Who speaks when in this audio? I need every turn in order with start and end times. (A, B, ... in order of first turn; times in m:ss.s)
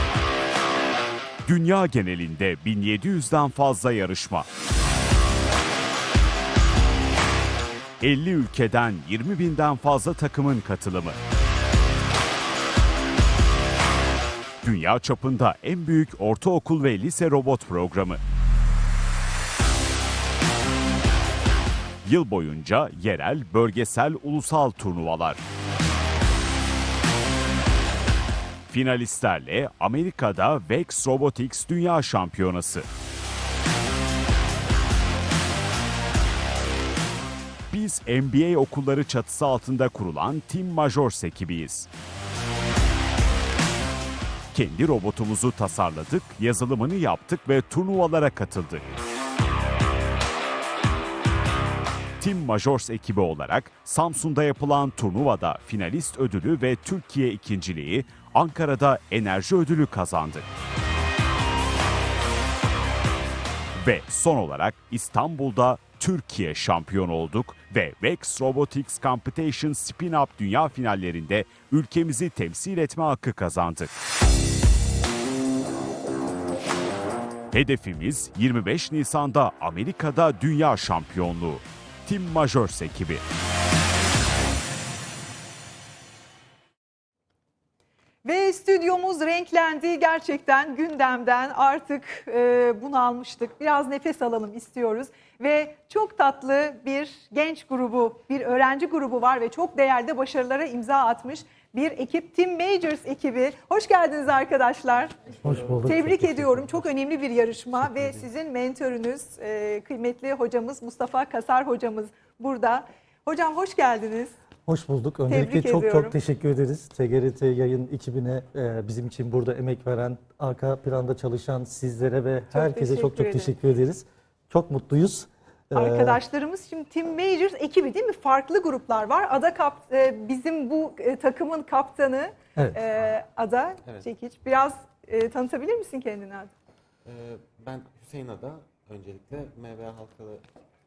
0:01.4-0:04.5 A
0:08.0-0:11.2 A
0:14.6-0:18.2 A
0:22.0-0:25.4 A
0:28.7-0:32.9 A
0:37.7-0:41.9 A
0:44.5-0:48.8 A
0:52.2-1:00.5 A
1:03.8-1:13.9 A
1:17.5-1:23.2 A
1:28.2-1:45.2 B
1:45.4-1:46.8 C
1:45.8-1:54.4 B
1:54.7-2:06.2 C
1:55.3-1:56.2 B
2:02.5-2:03.5 B
2:05.7-2:16.5 B
2:17.0-2:20.4 D